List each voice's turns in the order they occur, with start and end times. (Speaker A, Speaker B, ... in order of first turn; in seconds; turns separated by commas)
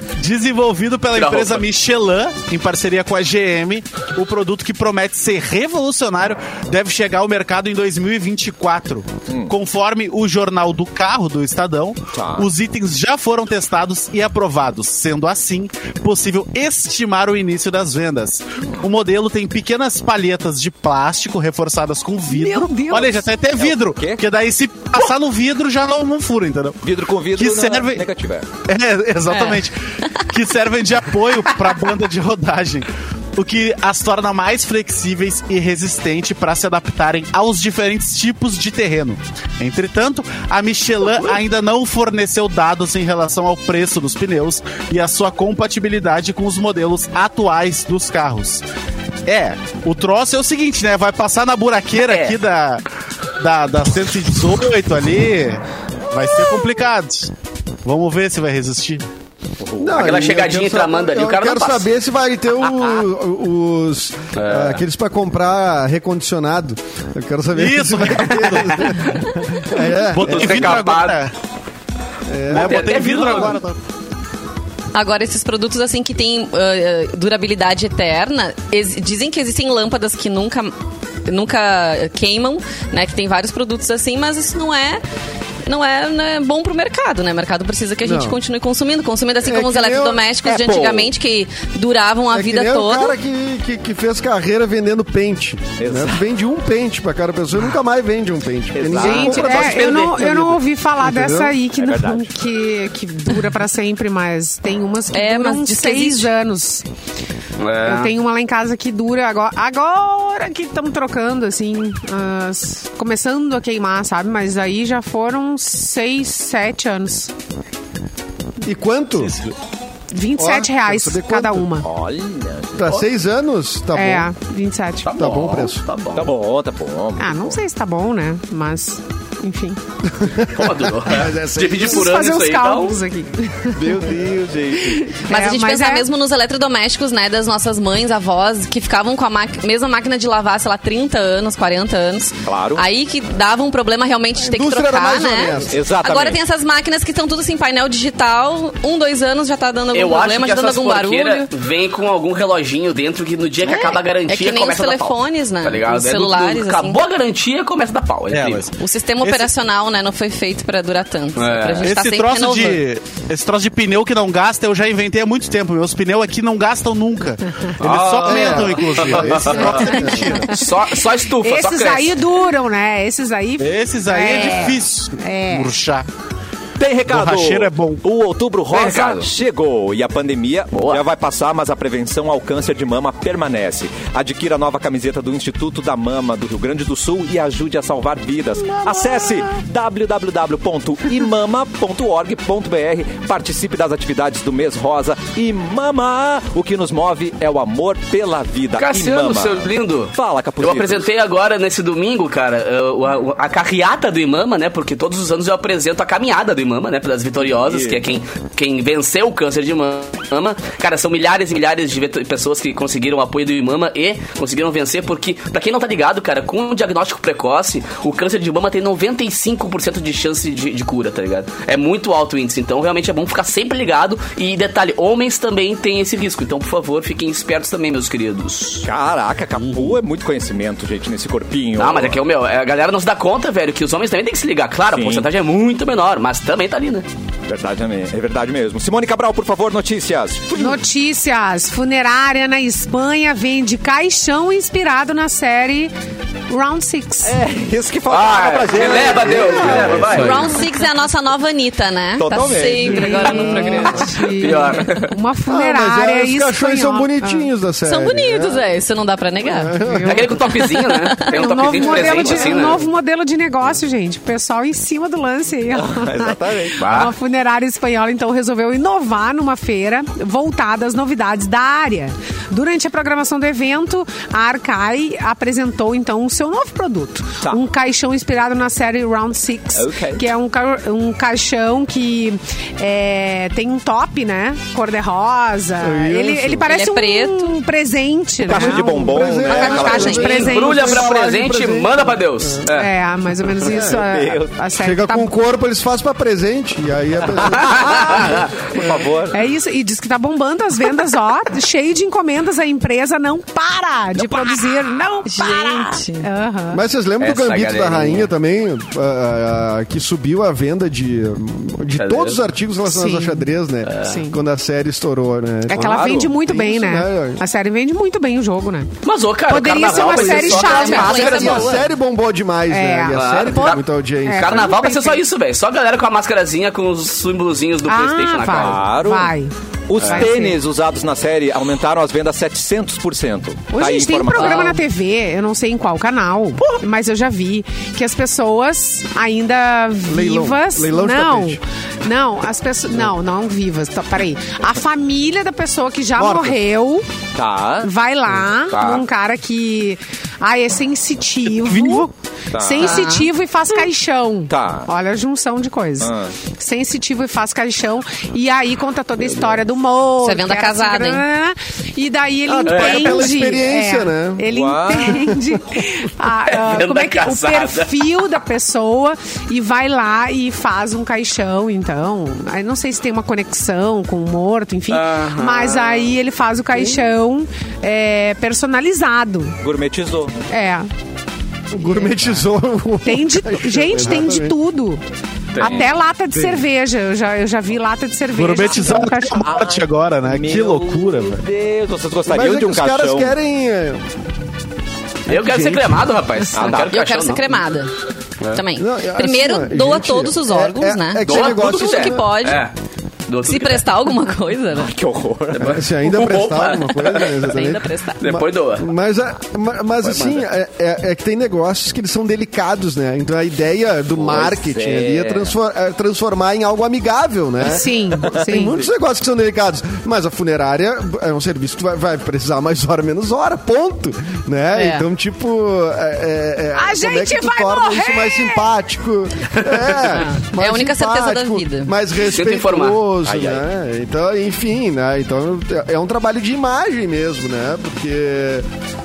Speaker A: 0.1-26.8, Speaker B: 1.1-1.6, Speaker C: 9.3-9.5, Speaker C: 12.1-12.5, Speaker D: 22.3-23.2, Speaker C: 23.6-24.2, Speaker C: 26.8-28.5, Speaker A: 27.3-28.0, Speaker A: 28.7-48.6, Speaker E: 29.3-29.6, Speaker A: 49.2-52.8, Speaker B: 51.9-52.4, Speaker A: 53.4-57.3, Speaker A: 57.8-59.0, Speaker C: 59.6-60.1, Speaker F: 59.8-70.8, Speaker B: 60.0-61.9, Speaker B: 64.3-64.8, Speaker A: 67.5-69.1, Speaker A: 70.1-71.3, Speaker B: 70.2-71.2, Speaker F: 72.3-73.6, Speaker A: 72.5-73.7, Speaker B: 72.5-73.6, Speaker E: 74.9-80.7, Speaker E: 81.2-85.0, Speaker E: 85.6-93.1, Speaker F: 88.0-88.4, Speaker F: 89.4-90.2, Speaker C: 90.4-91.1, Speaker F: 92.3-99.7, Speaker C: 95.8-96.2, Speaker C: 98.7-99.9, Speaker B: 98.9-100.6, Speaker D: 99.0-106.8, Speaker C: 101.7-102.3, Speaker E: 105.1-106.3, Speaker B: 107.6-108.1, Speaker D: 107.8-117.3, Speaker F: 118.6-119.4, Speaker A: 119.2-119.5, Speaker D: 120.1-121.9, Speaker F: 120.4-121.7, Speaker C: 121.8-123.1, Speaker F: 122.7-124.3, Speaker D: 123.9-125.1, Speaker B: 125.0-126.3, Speaker F: 125.1-125.8, Speaker C: 126.2-127.6, Speaker D: 127.2-129.8, Speaker F: 130.1-132.1, Speaker B: 130.4-133.0, Speaker D: 131.8-134.2, Speaker C: 133.7-135.1, Speaker D: 134.8-136.1, Speaker E: 135.3-151.5, Speaker C: 142.4-142.8, Speaker F: 144.4-145.8, Speaker C: 145.7-146.4, Speaker B: 149.9-158.7, Speaker E: 153.6-157.0, Speaker A: 158.3-159.5, Speaker E: 158.8-162.8, Speaker B: 161.3-161.9, Speaker A: 161.8-170.5, Speaker B: 167.8-172.2, Speaker F: 168.2-170.5, Speaker D: 169.7-170.8, Speaker D: 171.3-175.8, Speaker A: 173.6-176.1, Speaker C: 176.8-201.1, Speaker A: 177.1-178.0, Speaker B: 178.7-179.3, Speaker B: 180.7-181.0, Speaker B: 198.8-228.8, Speaker C: 207.4-208.0, Speaker C: 228.8-232.2, Speaker B: 231.8-237.1, Speaker C: 234.9-235.3, Speaker C: 237.5-240.8, Speaker D: 240.5-245.9, Speaker D: 246.5-247.4, Speaker C: 247.2-250.6, Speaker B: 248.1-250.5, Speaker F: 249.0-250.1, Speaker E: 250.1-254.2, Speaker C: 252.2-253.9, Speaker D: 252.7-257.5, Speaker F: 253.5-253.8, Speaker B: 254.3-255.1, Speaker F: 255.5-258.6, Speaker E: 257.9-259.8, Speaker F: 259.4-260.3, Speaker D: 259.7-260.3, Speaker B: 260.0-262.8, Speaker E: 260.4-261.4, Speaker D: 261.2-291.1, Speaker C: 265.7-266.9, Speaker B: 266.8-267.1, Speaker C: 279.7-280.2, Speaker F: 285.8-286.7, Speaker E: 286.7-287.6, Speaker C: 288.4-290.3, Speaker F: 288.5-292.7, Speaker E: 289.7-290.2, Speaker B: 290.1-292.9, Speaker D: 292.7-295.3, Speaker F: 293.6-294.0, Speaker C: 293.7-294.6, Speaker F: 294.8-299.1, Speaker B: 297.4-298.5, Speaker C: 297.5-299.4, Speaker D: 299.3-306.8, Speaker E: 305.2-306.3, Speaker F: 306.7-317.4, Speaker B: 307.2-308.3, Speaker B: 311.9-312.4, Speaker D: 312.9-314.4, Speaker B: 313.8-314.2, Speaker D: 315.6-318.9, Speaker C: 315.7-316.3, Speaker B: 319.0-321.9, Speaker D: 319.5-321.7, Speaker E: 320.1-321.8, Speaker F: 320.9-324.7, Speaker D: 322.7-325.2, Speaker B: 323.1-328.9, Speaker D: 327.9-330.6, Speaker C: 328.5-329.3, Speaker C: 329.9-334.8, Speaker D: 333.7-347.1, Speaker E: 334.4-334.8, Speaker F: 340.1-341.6, Speaker F: 346.2-346.6, Speaker C: 347.3-347.9, Speaker D: 347.8-379.6, Speaker B: 348.7-349.0, Speaker C: 352.5-353.1, Speaker E: 352.8-353.3, Speaker C: 354.5-354.9, Speaker C: 356.0-356.3, Speaker E: 360.2-361.2, Speaker F: 362.4-364.5, Speaker B: 362.6-363.2, Speaker C: 364.5-365.2, Speaker B: 366.5-368.3, Speaker B: 374.9-376.2, Speaker C: 379.6-380.4, Speaker D: 380.5-380.9, Speaker F: 381.7-384.6, Speaker C: 382.1-382.4, Speaker D: 383.0-385.0, Speaker B: 385.5-385.9, Speaker D: 385.6-389.5, Speaker C: 385.6-385.9, Speaker A: 388.3-391.4, Speaker C: 388.6-393.3, Speaker F: 392.3-394.1, Speaker F: 395.3-396.1, Speaker B: 395.3-397.6, Speaker C: 396.5-396.8, Speaker E: 396.5-397.9, Speaker E: 398.5-402.6, Speaker F: 398.8-402.3, Speaker B: 401.2-402.7, Speaker B: 403.3-403.9, Speaker E: 403.4-404.9, Speaker C: 404.7-405.8, Speaker B: 405.5-407.4, Speaker F: 405.6-438.7, Speaker E: 407.4-408.2, Speaker B: 408.2-408.9, Speaker B: 410.0-410.4, Speaker C: 414.2-415.5, Speaker D: 417.6-418.8, Speaker E: 424.7-425.1, Speaker D: 426.7-428.6, Speaker B: 429.6-430.1, Speaker E: 430.1-431.9, Speaker B: 432.2-433.0, Speaker C: 433.2-433.6